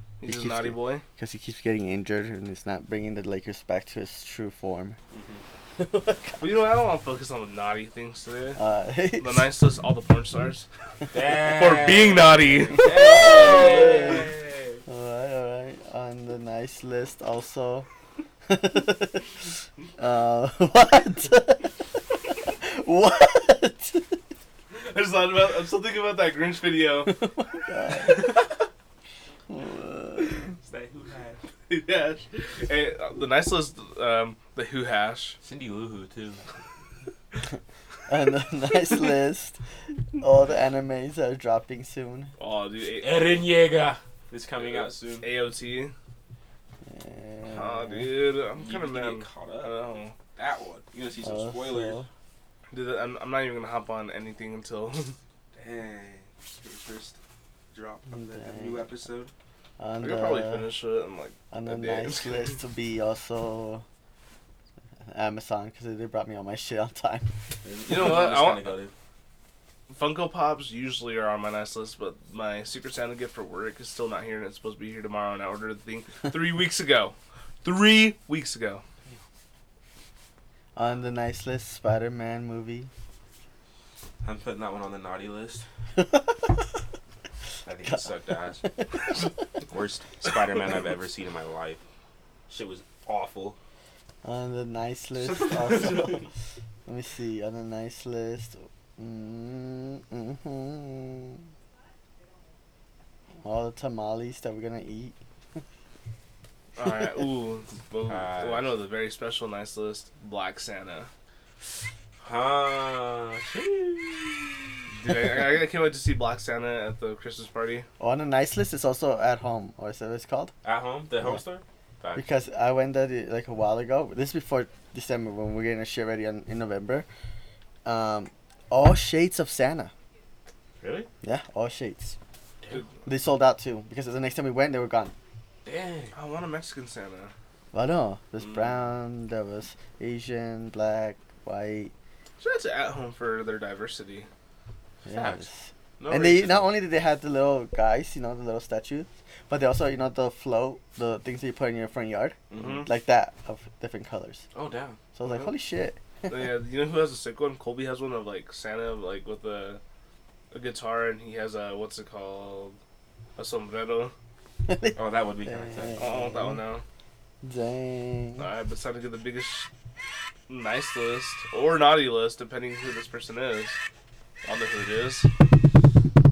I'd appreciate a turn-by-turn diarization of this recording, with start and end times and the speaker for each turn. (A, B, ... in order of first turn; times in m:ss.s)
0:00.2-0:01.0 A
0:00.2-0:05.0 B
0:05.1-0:05.4 C
0:05.8-0:06.4 B
0:06.4-0:08.6 A
0:08.6-0:09.5 B
0:09.2-0:10.7 A
0:11.1-0:14.8 C
0:11.4-0:14.1 A
0:12.7-0:14.3 B
0:14.9-0:17.9 B
0:18.5-0:21.8 B
0:22.3-0:24.2 B
0:24.7-0:27.2 A
0:27.1-0:28.3 B
0:28.0-0:28.5 A
0:29.5-0:30.5 B
0:30.6-0:31.4 C
0:31.7-0:35.4 A
0:35.4-0:36.4 C
0:38.1-0:39.6 B
0:40.2-0:42.3 B
0:42.4-0:43.4 A
0:43.0-0:45.3 C
0:44.7-0:45.9 A
0:46.8-0:48.1 B
0:47.5-0:50.2 A
0:48.6-0:52.0 C
0:51.2-0:52.1 B
0:52.7-0:55.2 A
0:55.5-0:57.2 C
0:57.7-0:59.3 C
0:58.1-0:58.9 B
0:59.8-1:00.7 B
1:00.0-1:02.6 A
1:01.5-1:03.8 B
1:05.1-1:07.3 B
1:07.6-1:08.9 C
1:07.9-1:08.8 A
1:09.9-1:18.8 A
1:20.8-1:22.9 B
1:24.2-1:25.7 C
1:26.0-1:26.4 B
1:27.6-1:28.7 C
1:29.7-1:31.8 C
1:32.5-1:33.6 C
1:34.2-1:36.3 B
1:35.2-1:36.3 C
1:36.9-1:41.5 B
1:43.4-1:45.2 B
1:46.8-1:51.1 A
1:48.1-1:48.7 C
1:52.2-1:54.7 C
1:55.0-1:57.9 A
1:58.0-2:00.5 B
2:00.6-2:02.3 C
2:02.2-2:07.1 B
2:07.8-2:09.9 B
2:10.8-2:11.1 C
2:11.2-2:12.2 B
2:13.0-2:15.1 B
2:15.7-2:16.1 C
2:16.1-2:17.3 A
2:17.7-2:21.9 B
2:18.4-2:18.8 C
2:22.4-2:24.3 A
2:25.0-2:34.4 B
2:25.1-2:25.5 C
2:26.0-2:26.8 C
2:32.5-2:32.9 C
2:32.5-2:32.9 A
2:34.5-2:35.0 C
2:35.2-2:36.5 B
2:36.3-2:39.8 A
2:40.5-2:42.8 A
2:43.4-2:44.1 A
2:44.7-2:46.6 B
2:44.9-2:46.0 C
2:46.0-2:46.8 A
2:47.4-2:48.5 B
2:48.4-2:49.7 A
2:50.5-2:53.8 A
2:54.4-2:55.3 A